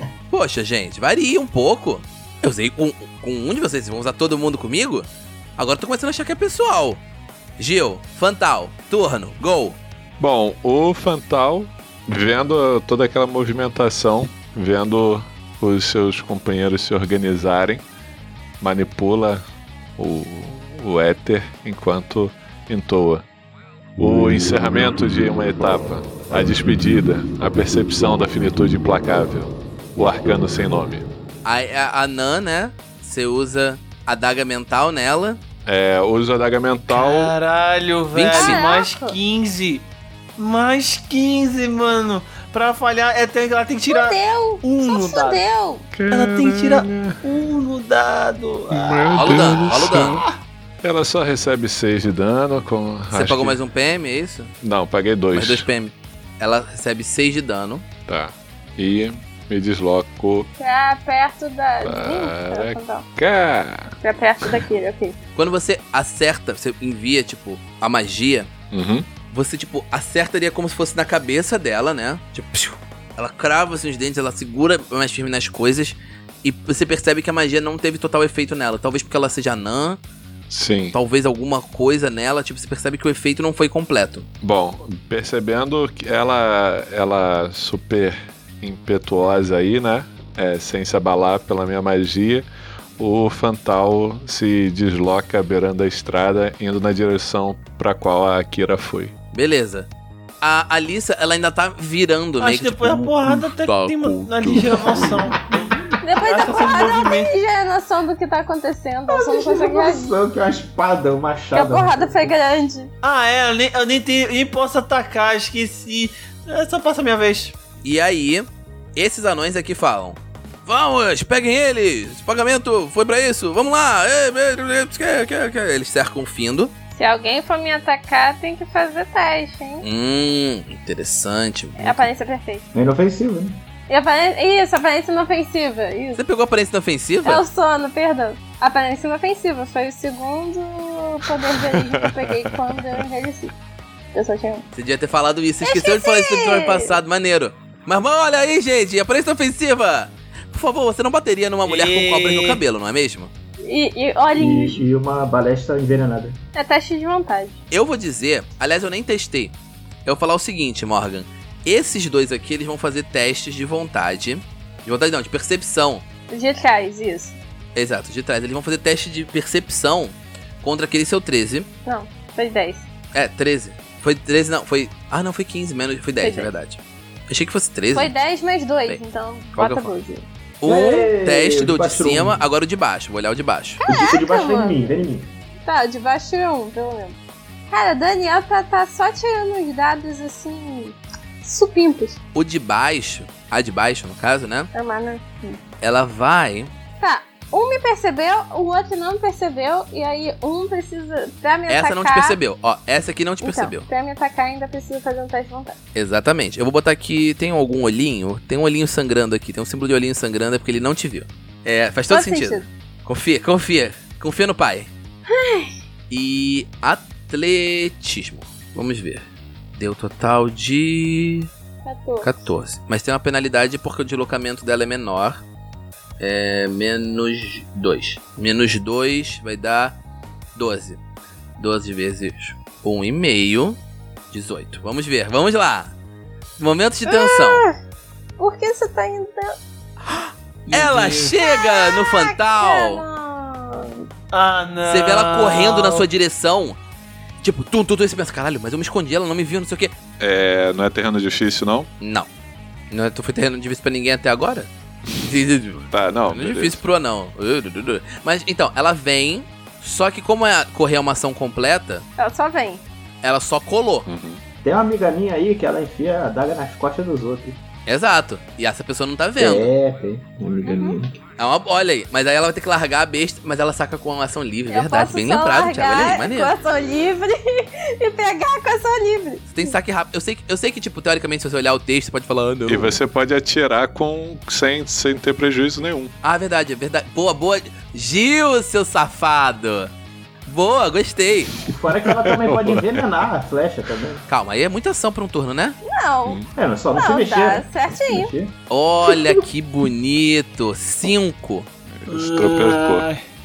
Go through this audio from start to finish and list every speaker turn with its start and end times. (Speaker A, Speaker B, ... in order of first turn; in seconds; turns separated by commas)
Speaker A: 0.3-5.1, Speaker A: 5.6-7.0, Speaker A: 7.6-9.8, Speaker B: 10.2-17.8, Speaker B: 18.6-19.4, Speaker B: 20.0-23.2, Speaker B: 24.0-31.1, Speaker A: 31.4-35.4, Speaker B: 35.7-37.4, Speaker C: 36.9-45.5, Speaker A: 38.1-38.6, Speaker D: 38.3-39.2, Speaker D: 43.9-45.9, Speaker B: 46.0-47.2, Speaker C: 46.1-49.9, Speaker B: 48.7-50.3, Speaker A: 49.2-50.2, Speaker B: 50.8-53.6, Speaker A: 53.1-54.5, Speaker B: 54.6-55.7, Speaker A: 55.3-57.9, Speaker B: 58.1-60.5, Speaker D: 60.6-63.0, Speaker B: 61.8-64.6, Speaker D: 64.0-65.2, Speaker A: 65.4-68.5, Speaker B: 68.7-69.1, Speaker A: 69.3-80.0, Speaker B: 80.5-81.0, Speaker A: 80.9-84.3, Speaker B: 84.4-92.5, Speaker B: 93.0-99.1, Speaker A: 99.3-99.9, Speaker A: 100.4-105.1, Speaker C: 102.4-105.6, Speaker D: 106.0-110.2, Speaker C: 106.1-107.3, Speaker E: 109.1-112.4, Speaker D: 111.5-112.9, Speaker C: 113.0-117.5, Speaker A: 117.8-126.7, Speaker D: 126.9-129.9, Speaker A: 129.8-132.1, Speaker D: 131.8-132.7, Speaker E: 132.7-133.6, Speaker D: 133.9-136.2, Speaker A: 136.2-137.4, Speaker D: 137.2-143.6, Speaker B: 141.7-143.0, Speaker D: 144.1-144.7, Speaker A: 144.7-153.3, Speaker D: 145.6-147.0, Speaker C: 151.7-152.6, Speaker D: 153.7-154.8, Speaker E: 154.3-156.4, Speaker D: 156.6-157.6, Speaker A: 157.7-159.5, Speaker A: 160.1-166.1, Speaker D: 166.3-167.4, Speaker A: 167.8-171.7, Speaker D: 171.8-172.9, Speaker A: 173.1-178.1, Speaker D: 176.2-176.5, Speaker D: 177.9-180.2, Speaker A: 179.5-179.9, Speaker A: 180.6-183.8, Speaker E: 180.6-182.4, Speaker D: 183.8-184.8, Speaker E: 183.9-185.3, Speaker D: 185.7-187.2, Speaker D: 187.7-192.2, Speaker A: 192.3-194.7, Speaker D: 194.7-195.6, Speaker A: 195.8-196.7, Speaker D: 197.0-202.4, Speaker A: 201.7-203.9, Speaker D: 203.4-205.8, Speaker A: 205.9-214.9, Speaker D: 212.1-212.7, Speaker D: 215.3-215.7, Speaker A: 216.1-221.5, Speaker D: 221.8-222.4, Speaker A: 222.2-225.4, Speaker A: 226.2-230.0, Speaker A: 230.6-231.0, Speaker A: 231.6-233.8, Speaker A: 234.3-235.9, Speaker A: 236.6-237.7, Speaker D: 237.1-237.8, Speaker D: 238.4-239.6, Speaker A: 240.0-243.0, Speaker C: 240.7-241.3, Speaker D: 241.4-244.1, Speaker C: 244.3-246.1, Speaker A: 244.8-246.8, Speaker A: 247.4-249.9, Speaker B: 250.2-251.9, Speaker A: 252.0-252.3, Speaker A: 252.9-262.1, Speaker B: 255.9-256.8, Speaker D: 262.2-262.8, Speaker A: 263.2-264.1, Speaker B: 264.1-264.4, Speaker E: 264.6-267.6, Speaker A: 267.9-269.7, Speaker E: 269.4-271.1, Speaker D: 270.6-271.0, Speaker A: 271.4-276.6, Speaker D: 274.7-279.7, Speaker A: 279.5-283.0, Speaker B: 282.7-286.1, Speaker A: 286.2-289.9, Speaker A: 290.5-291.5, Speaker E: 291.7-294.2, Speaker B: 292.1-293.0, Speaker A: 294.3-295.8, Speaker D: 295.8-298.3, Speaker E: 296.6-298.5, Speaker A: 298.7-301.7, Speaker B: 301.9-303.1, Speaker C: 302.1-303.2